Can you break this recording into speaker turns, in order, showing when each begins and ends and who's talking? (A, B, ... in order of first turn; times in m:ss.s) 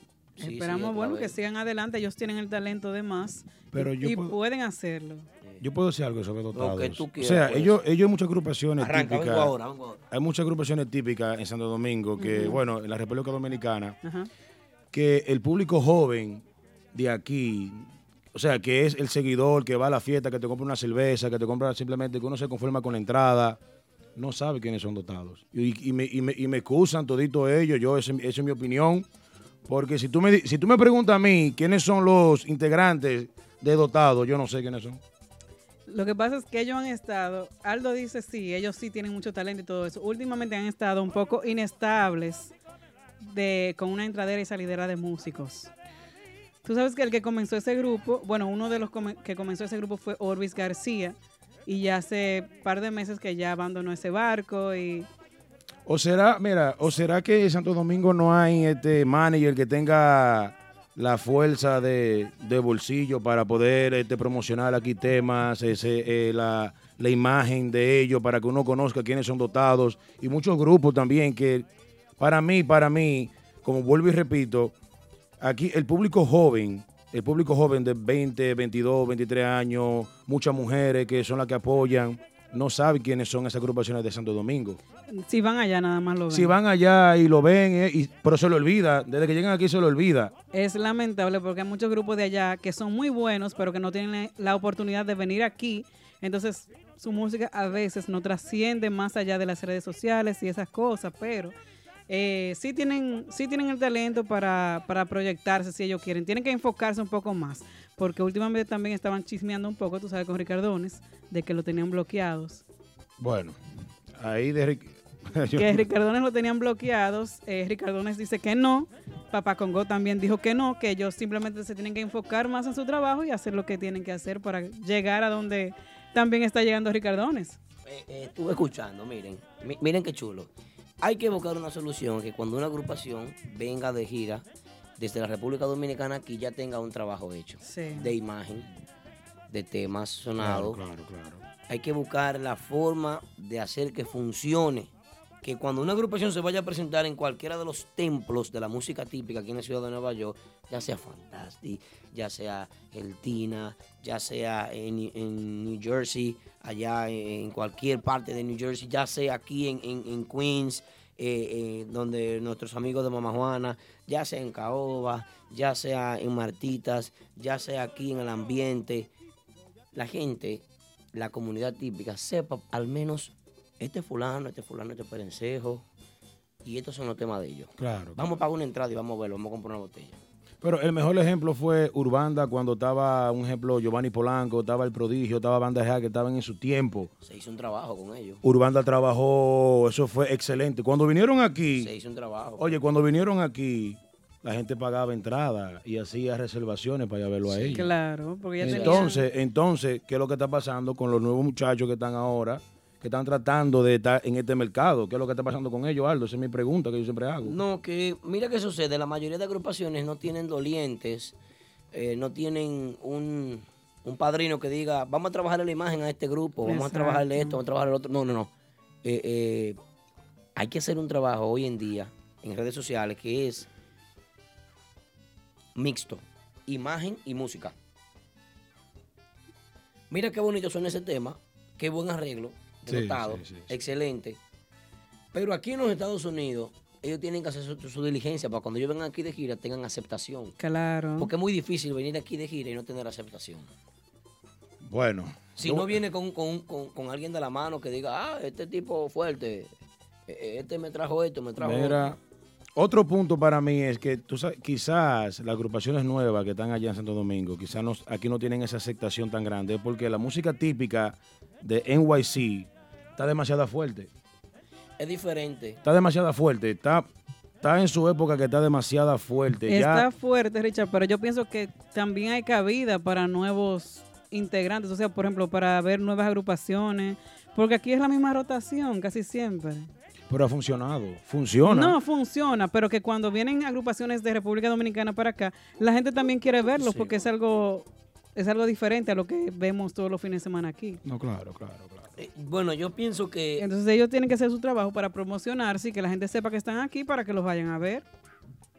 0:00.4-0:01.4 A
0:00.4-0:05.3 B
0:03.7-0:04.4 C
0:05.6-0:09.5 C
0:06.5-0:07.8 A
0:08.8-0:10.0 A
0:10.1-0:14.0 C
0:12.2-0:12.6 B
0:14.0-0:14.3 B
0:14.9-0:23.6 C
0:24.2-0:29.0 C
0:29.7-0:35.0 C
0:35.9-0:42.5 B
0:43.2-0:45.7 B
0:46.6-0:51.2 B
0:51.7-0:55.1 B
0:55.8-1:11.6 C
1:12.2-1:14.7 C
1:15.4-1:24.8 C
1:25.1-1:26.5 B
1:26.3-1:30.3 C
1:30.5-1:41.5 B
1:42.1-1:52.6 B
1:53.2-1:53.6 C
1:54.2-1:55.8 C
1:55.5-2:07.6 B
2:07.8-2:14.4 A
2:15.0-2:18.7 A
2:17.6-2:18.1 B
2:19.5-2:20.8 A
2:20.4-2:21.4 C
2:21.7-2:24.9 A
2:25.4-2:49.1 A
2:49.9-2:55.8 A
2:56.6-3:00.2 A
2:57.8-2:58.4 C
3:00.6-3:07.1 C
3:07.2-3:08.4 A
3:08.4-3:11.9 C
3:11.7-3:12.8 A
3:12.6-3:17.9 C
3:17.4-3:17.8 A
3:17.7-3:19.2 B
3:18.6-3:27.6 C
3:18.6-3:19.1 A
3:27.4-3:31.4 A
3:31.9-3:38.5 A
3:36.6-3:37.6 B
3:39.0-3:39.8 A
3:40.6-3:43.7 A
3:45.8-3:47.7 A
3:50.1-3:54.4 A
3:52.9-3:53.7 C
3:55.3-4:00.6 A
4:00.6-4:01.3 B
4:01.2-4:03.7 A
4:04.8-4:06.0 C
4:05.6-4:09.7 A
4:10.3-4:12.1 A
4:11.6-4:12.2 C
4:12.8-4:24.1 C
4:25.0-4:25.8 A
4:25.8-4:27.1 C
4:27.6-4:30.0 C
4:29.7-4:39.9 B
4:40.3-4:42.0 C
4:41.6-4:51.0 B
4:46.8-4:47.2 A
4:51.0-4:52.1 C
4:52.2-4:53.6 A
4:53.6-4:58.0 B